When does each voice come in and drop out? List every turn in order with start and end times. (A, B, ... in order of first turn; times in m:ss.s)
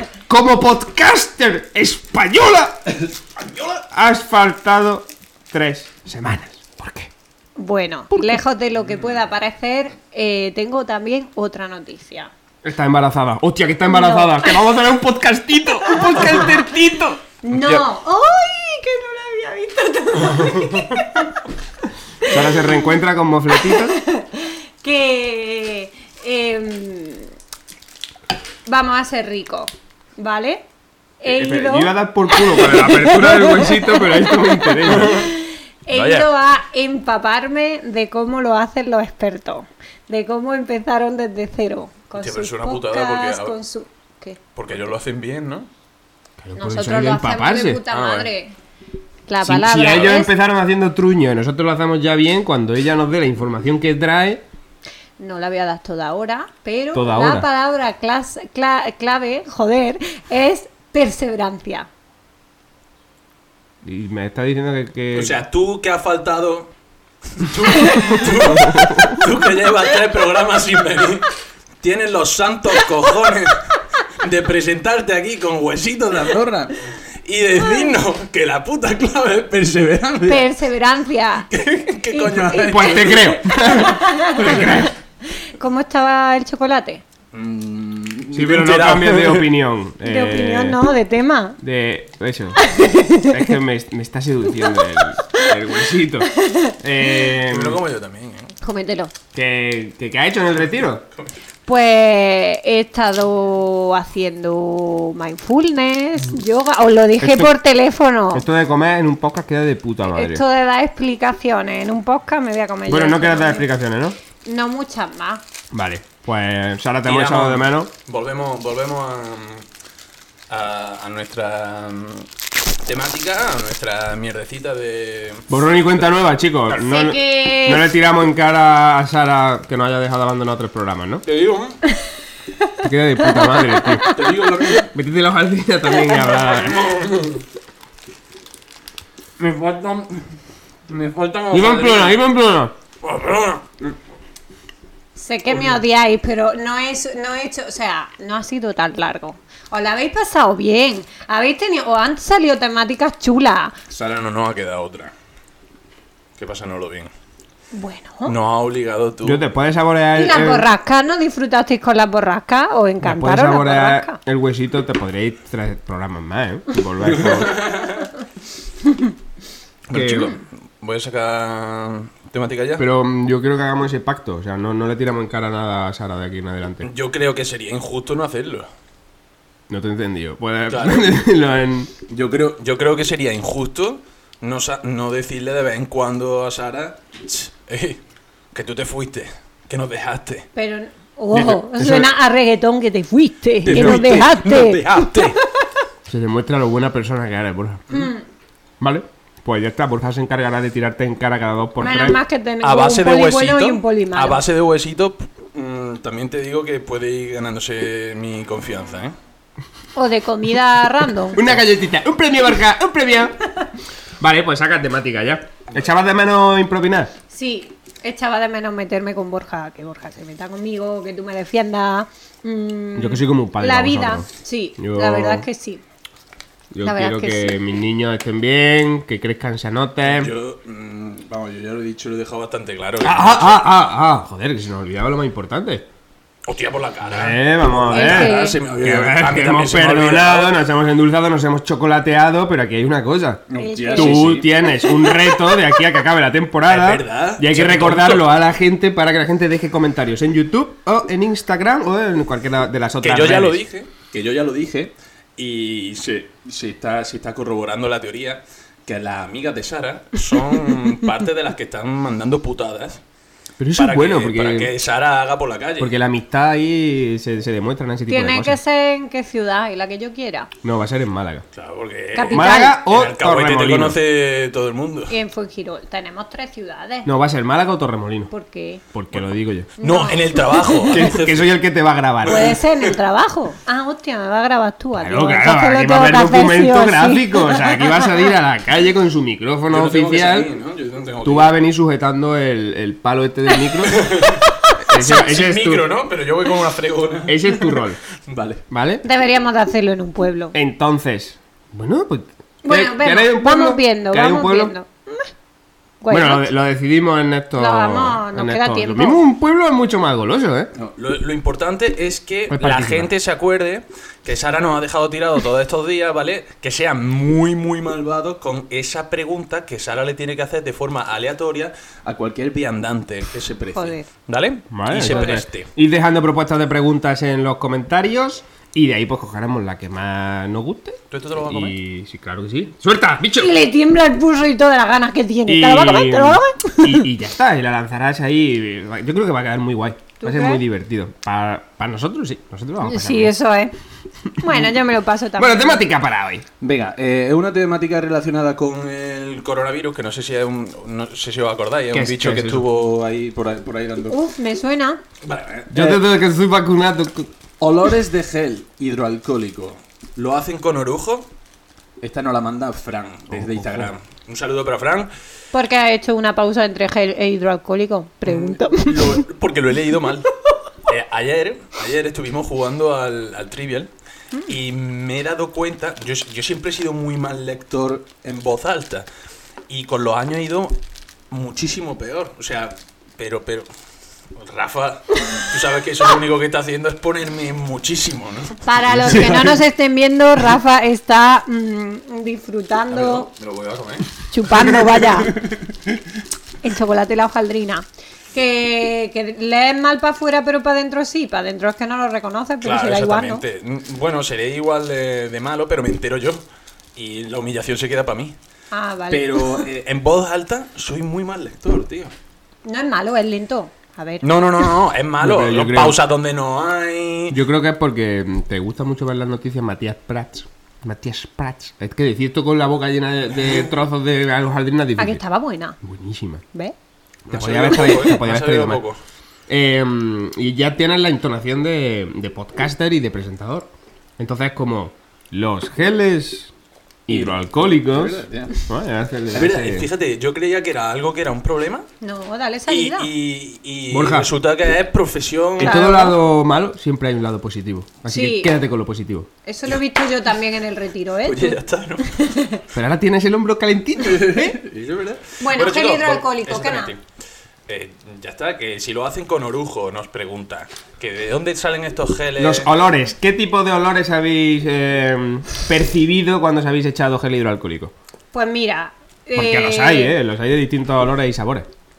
0:00.3-0:02.9 A
0:03.4-0:03.7 B
0:03.9-0:07.1 A
0:07.6-0:12.3 C
0:12.6-0:17.8 A
0:13.9-0:14.5 C
0:17.4-0:21.4 C
0:22.2-0:24.0 A
0:23.7-0:27.3 C
0:28.6-0:30.6 C
0:31.2-0:44.4 C
0:31.2-0:35.3 A
0:34.8-0:35.3 B
0:35.9-0:36.3 B
0:42.2-0:43.6 B
0:44.6-0:45.7 B
0:46.4-0:47.8 A
0:46.6-0:48.5 C
0:47.9-0:48.3 B
0:49.3-0:50.3 C
0:49.4-0:54.4 A
0:55.2-1:01.9 C
0:56.9-0:57.5 A
1:03.8-1:05.4 A
1:05.1-1:06.7 B
1:07.4-1:11.3 B
1:08.6-1:09.2 A
1:11.8-1:20.5 B
1:17.6-1:17.9 C
1:20.2-1:21.5 C
1:21.5-1:24.8 B
1:22.1-1:27.0 C
1:22.6-1:24.9 A
1:27.3-1:29.5 B
1:28.3-1:30.8 A
1:30.0-1:31.6 C
1:31.6-1:37.8 A
1:32.6-1:33.4 C
1:35.2-1:35.5 C
1:36.3-1:36.7 C
1:37.4-1:38.6 B
1:38.6-1:39.1 C
1:39.3-1:41.0 A
1:41.7-1:48.4 C
1:47.2-1:47.5 A
1:48.3-1:50.4 A
1:50.1-1:53.7 C
1:52.9-1:54.2 A
1:54.4-1:55.4 C
1:55.7-1:57.9 A
1:57.0-1:59.6 B
2:00.5-2:02.3 B
2:02.8-2:05.5 B
2:05.5-2:11.2 A
2:06.8-2:07.9 C
2:11.2-2:11.8 B
2:12.8-2:14.2 A
2:13.2-2:14.4 C
2:14.0-2:14.9 B
2:14.8-2:17.0 A
2:16.2-2:17.4 B
2:19.4-2:20.2 B
2:20.9-2:22.2 B
2:21.5-2:22.7 A
2:23.0-2:23.6 B
2:25.2-2:33.8 C
2:33.9-2:35.1 B
2:36.4-2:37.1 B
2:37.7-2:38.3 C
2:38.2-2:39.4 B
2:39.2-2:40.7 A
2:40.1-2:44.2 C
2:43.0-2:47.6 A
2:47.0-2:48.1 B
2:49.9-2:52.8 B
2:49.9-2:50.3 A
2:52.8-2:56.9 A
2:56.8-2:58.7 B
2:59.7-3:01.9 A
3:00.7-3:01.2 B
3:02.1-3:08.0 B
3:08.5-3:10.5 B
3:10.5-3:15.4 C
3:11.3-3:12.1 A
3:13.6-3:15.4 B
3:13.7-3:14.2 A
3:16.1-3:18.0 A
3:17.9-3:18.2 C
3:18.8-3:22.2 A
3:21.8-3:24.4 C
3:22.6-3:29.1 B
3:29.9-3:31.4 C
3:31.3-3:33.4 A
3:34.2-3:37.1 A
3:37.3-3:45.8 C
3:43.0-3:44.3 A
3:44.8-3:45.4 A
3:46.7-3:50.3 A
3:46.8-3:47.6 C
3:50.0-3:53.6 B
3:53.0-3:55.8 A
3:56.4-4:00.5 B
3:57.1-4:03.4 A
3:57.9-3:58.6 C
4:03.5-4:04.5 B
4:03.6-4:05.1 C
4:03.9-4:13.6 A
4:06.7-4:08.3 B
4:13.0-4:23.0 B
4:23.6-4:24.7 A
4:23.8-4:26.0 B
4:25.8-4:28.6 A
4:28.1-4:30.5 C
4:30.6-4:31.4 A
4:31.5-4:35.1 B
4:32.1-4:32.8 C
4:32.3-4:34.0 A
4:35.1-4:37.1 C
4:37.0-4:38.3 A
4:38.3-4:38.8 C
4:38.9-4:39.7 A
4:39.1-4:41.5 B
4:39.8-4:41.0 C
4:40.9-4:42.6 A
4:42.2-4:43.0 B
4:42.2-4:48.2 C
4:45.0-4:50.5 A
4:49.7-4:51.5 B
4:51.2-4:54.1 A
4:53.8-4:58.6 B
4:54.8-4:55.9 A
4:57.3-4:58.0 A
4:58.7-4:59.0 A
4:59.0-5:00.5 C
5:00.5-5:04.7 A
5:02.6-5:05.3 C
5:06.0-5:06.5 C
5:06.1-5:10.7 A
5:07.6-5:09.2 C
5:10.8-5:25.7 B
5:12.5-5:13.1 A
5:23.7-5:24.1 C
5:24.7-5:33.6 A
5:31.1-5:31.8 B
5:33.4-5:37.0 C
5:35.5-5:43.3 A
5:40.2-5:40.6 C
5:42.8-5:43.7 C
5:44.4-5:44.7 A
5:44.4-5:45.8 C
5:45.4-5:46.4 A
5:46.6-5:54.2 B
5:51.9-5:52.6 A
5:54.1-5:55.0 C
5:55.2-5:56.0 B
5:55.7-5:57.3 A
5:57.6-6:01.3 B
6:02.0-6:05.1 B
6:03.3-6:03.9 A
6:05.5-6:09.2 C
6:08.2-6:10.3 B
6:10.8-6:13.9 B
6:14.4-6:19.0 B
6:19.7-6:20.8 B
6:21.3-6:23.7 B
6:24.3-6:29.6 B
6:28.6-6:33.3 C
6:32.9-6:36.0 B
6:34.3-6:35.4 C
6:36.6-6:43.4 C
6:42.6-6:46.4 B
6:46.9-6:48.3 B
6:48.7-6:49.6 C
6:49.1-6:52.1 B
6:52.6-6:54.6 C
6:54.2-6:57.4 B
6:55.2-6:56.0 A
6:57.3-7:05.2 A
7:03.4-7:03.7 B
7:05.0-7:05.8 C
7:05.8-7:06.4 A
7:07.2-7:08.8 A
7:07.3-7:09.0 B
7:09.5-7:16.5 A
7:17.1-7:19.9 A
7:17.1-7:18.6 B
7:19.3-7:21.9 B
7:22.0-7:23.1 C
7:22.7-7:25.9 B
7:23.9-7:24.3 A
7:25.6-7:29.3 A
7:25.6-7:26.2 C
7:28.0-7:28.5 C
7:29.4-7:32.6 C
7:31.2-7:32.2 B
7:32.7-7:34.6 A
7:34.0-7:37.0 B
7:35.4-7:36.9 C
7:37.7-7:42.7 B
7:42.4-7:47.9 A
7:48.3-7:50.1 C
7:49.4-7:51.7 A